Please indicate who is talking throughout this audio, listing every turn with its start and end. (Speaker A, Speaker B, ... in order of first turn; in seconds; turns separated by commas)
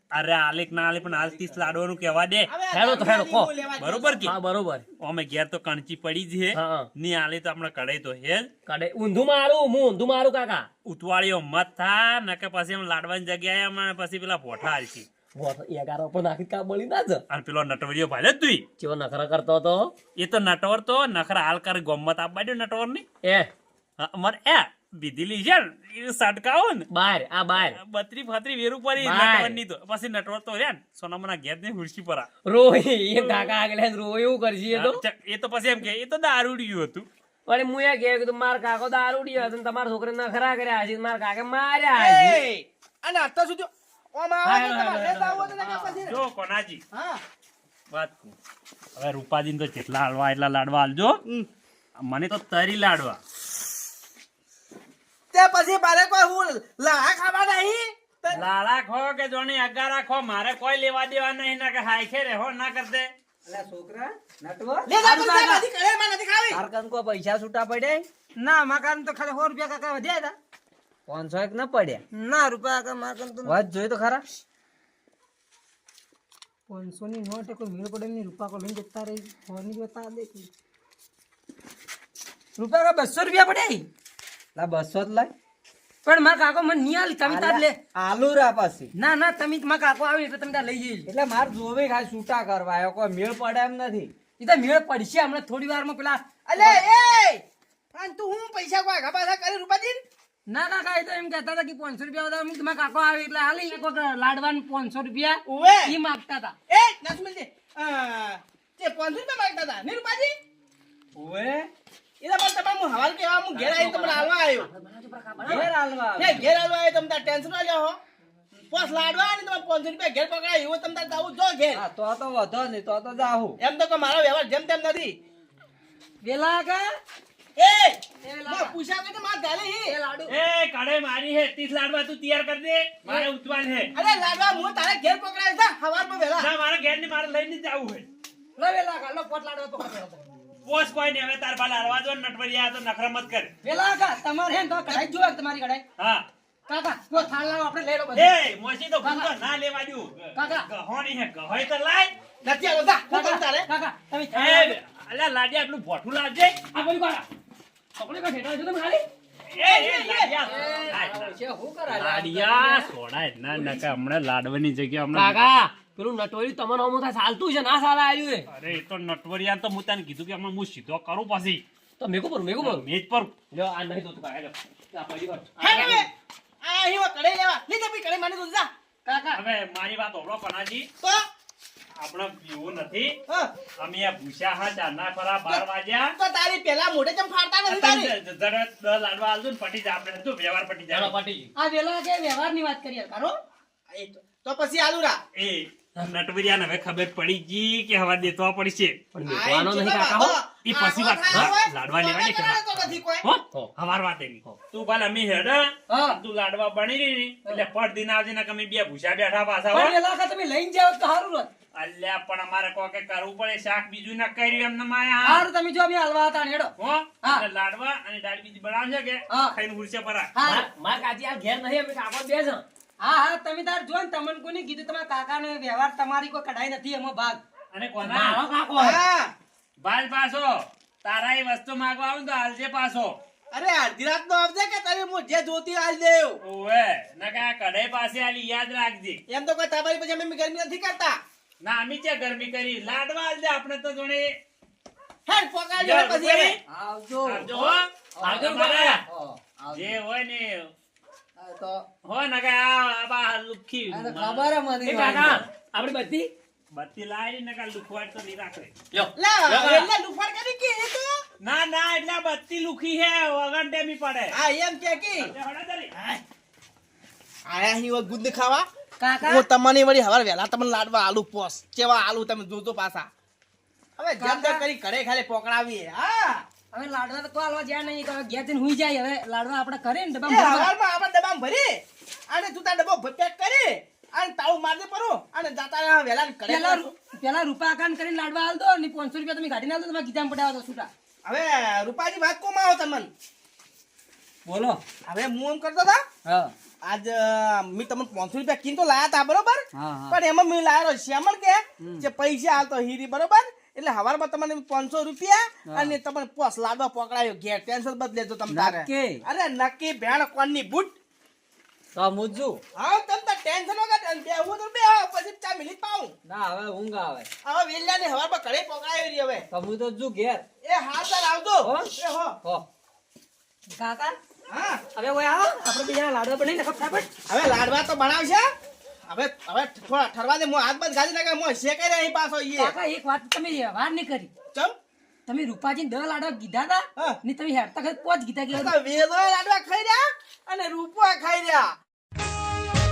Speaker A: 0.1-2.5, Speaker B: 2.5-4.3, Speaker C: 2.7-3.5, Speaker A: 3.8-4.3, Speaker C: 4.2-4.8, Speaker A: 5.0-8.5, Speaker C: 6.5-6.9, Speaker C: 8.7-10.7, Speaker A: 10.9-15.1, Speaker C: 15.4-17.2, Speaker A: 17.3-18.6, Speaker C: 18.8-19.9, Speaker A: 20.2-23.1, Speaker C: 23.2-23.5, Speaker A: 24.0-26.9, Speaker C: 26.9-27.8, Speaker A: 27.7-32.3, Speaker C: 29.0-29.6, Speaker C: 32.5-35.0, Speaker A: 33.2-33.5, Speaker A: 34.7-37.1, Speaker C: 37.5-42.5, Speaker B: 42.0-46.2, Speaker C: 44.4-46.1, Speaker A: 46.0-46.8, Speaker B: 46.9-47.2, Speaker A: 47.9-48.3, Speaker A: 49.0-51.2, Speaker A: 52.0-53.2, Speaker B: 55.3-58.5, Speaker A: 58.3-63.1, Speaker D: 63.5-64.9, Speaker B: 64.9-66.6, Speaker E: 65.0-65.7, Speaker D: 66.5-68.1, Speaker E: 68.4-70.4, Speaker D: 71.1-72.0, Speaker E: 72.1-73.6, Speaker D: 73.5-74.2, Speaker E: 76.7-80.5, Speaker E: 82.6-83.8, Speaker D: 84.6-85.3, Speaker E: 86.0-87.8, Speaker D: 87.2-88.9, Speaker E: 89.0-91.1, Speaker D: 91.1-94.1, Speaker E: 94.4-96.8, Speaker B: 96.5-97.4, Speaker B: 98.0-100.0, Speaker E: 100.5-106.5, Speaker B: 105.5-105.9, Speaker B: 106.7-110.3, Speaker D: 111.2-111.7, Speaker B: 112.2-114.7, Speaker C: 113.5-115.7, Speaker D: 115.5-116.5, Speaker B: 116.2-118.0, Speaker B: 118.6-121.8, Speaker D: 121.8-123.6, Speaker B: 123.6-125.2, Speaker E: 126.2-126.9, Speaker B: 127.6-129.9, Speaker E: 128.2-128.8, Speaker E: 129.9-130.4, Speaker A: 130.3-133.9, Speaker B: 133.9-136.5, Speaker A: 136.4-138.1, Speaker E: 138.6-140.3, Speaker A: 140.7-143.5, Speaker E: 143.6-145.8, Speaker A: 146.0-146.3, Speaker E: 146.7-148.4, Speaker A: 148.1-152.1, Speaker E: 149.0-149.3, Speaker E: 150.3-150.7, Speaker B: 152.4-153.7, Speaker E: 153.1-154.8, Speaker A: 154.3-156.6, Speaker C: 156.7-157.2, Speaker C: 158.0-159.1, Speaker A: 159.5-161.3, Speaker B: 159.6-160.4, Speaker D: 160.4-162.9, Speaker A: 161.9-165.5, Speaker C: 165.1-168.5, Speaker A: 168.5-171.6, Speaker C: 172.0-172.9, Speaker A: 172.6-173.3, Speaker C: 173.5-176.0, Speaker B: 175.6-176.1, Speaker A: 175.7-176.0, Speaker B: 176.6-178.7, Speaker E: 179.1-179.4, Speaker A: 179.3-180.9, Speaker A: 182.0-183.2, Speaker A: 183.8-186.2, Speaker B: 186.2-188.1, Speaker A: 187.7-191.1, Speaker C: 190.9-191.5, Speaker E: 191.6-193.3, Speaker B: 193.9-195.2, Speaker A: 195.3-199.0, Speaker C: 199.1-200.4, Speaker B: 199.3-203.2, Speaker A: 200.7-203.0, Speaker C: 203.2-203.7, Speaker A: 203.8-210.0, Speaker E: 205.9-206.2, Speaker E: 209.7-211.5, Speaker A: 211.8-215.4, Speaker E: 215.2-217.4, Speaker A: 216.8-220.3, Speaker E: 219.3-219.6, Speaker E: 220.3-220.7, Speaker C: 220.4-222.6, Speaker E: 223.0-227.4, Speaker A: 227.7-228.4, Speaker C: 228.0-229.0, Speaker B: 228.8-229.3, Speaker A: 229.8-233.2, Speaker B: 233.5-236.4, Speaker A: 236.4-239.2, Speaker B: 239.3-241.2, Speaker A: 241.6-244.3, Speaker B: 245.3-246.6, Speaker A: 245.8-246.6, Speaker D: 246.7-250.0, Speaker A: 247.3-249.0, Speaker C: 248.2-249.0, Speaker A: 249.7-250.7, Speaker D: 251.4-251.8, Speaker A: 252.1-254.5, Speaker D: 253.9-255.4, Speaker C: 254.8-256.3, Speaker A: 256.8-258.7, Speaker C: 258.9-259.9, Speaker B: 259.2-261.1, Speaker A: 261.4-264.4, Speaker B: 264.3-265.3, Speaker A: 265.2-265.9, Speaker B: 267.5-268.7, Speaker E: 269.0-269.5, Speaker B: 269.2-273.1, Speaker B: 274.0-276.4, Speaker E: 274.2-274.6, Speaker E: 276.7-280.7, Speaker B: 280.3-286.9, Speaker E: 286.5-290.9, Speaker B: 291.3-293.1, Speaker D: 294.5-294.8, Speaker B: 295.1-296.0, Speaker D: 296.3-296.5, Speaker B: 296.9-310.9, Speaker D: 299.8-300.2, Speaker D: 301.8-302.1, Speaker D: 305.7-306.0, Speaker D: 308.5-309.2, Speaker D: 311.9-312.6, Speaker B: 312.8-316.1, Speaker D: 316.3-317.3, Speaker B: 317.4-319.4, Speaker D: 319.5-320.4, Speaker B: 320.6-322.4, Speaker D: 321.6-321.9, Speaker E: 323.8-324.1, Speaker B: 324.5-324.8, Speaker E: 324.9-327.1, Speaker B: 327.3-328.5, Speaker B: 329.1-332.7, Speaker E: 332.6-334.3, Speaker E: 335.3-338.7, Speaker B: 338.5-341.8